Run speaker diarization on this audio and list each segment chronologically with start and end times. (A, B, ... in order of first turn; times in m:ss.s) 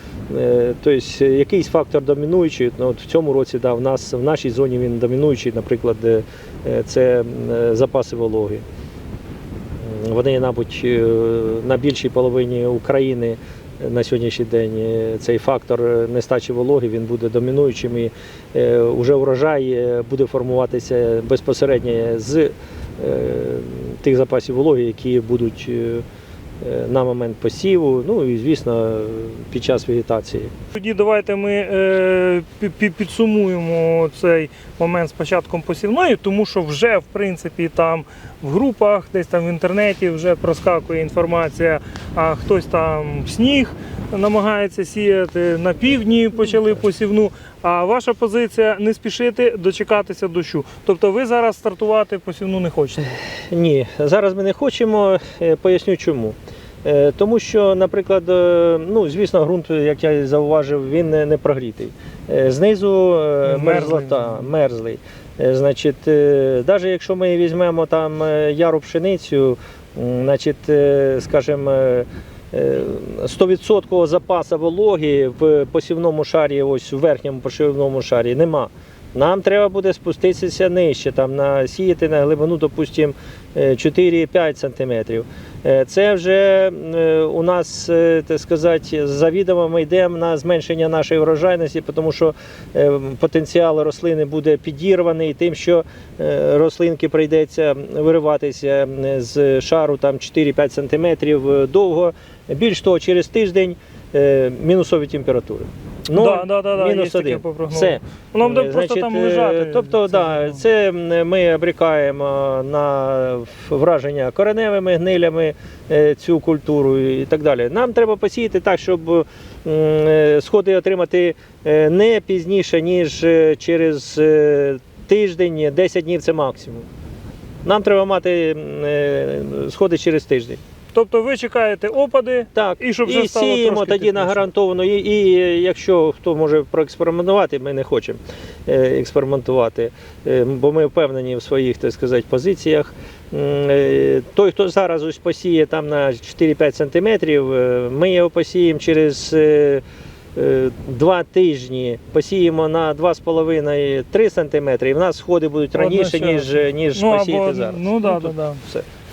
0:00.3-0:08.6 A
0:09.8-0:26.0 A
0:26.6-0:30.5 A
0:30.7-0:53.1 B
0:53.5-2:06.9 A
1:03.4-1:04.4 B
1:46.1-1:50.3 B
2:07.6-2:10.6 A
2:10.9-2:14.4 B
2:12.5-2:29.8 A
2:30.4-2:38.8 A
2:35.8-2:38.6 B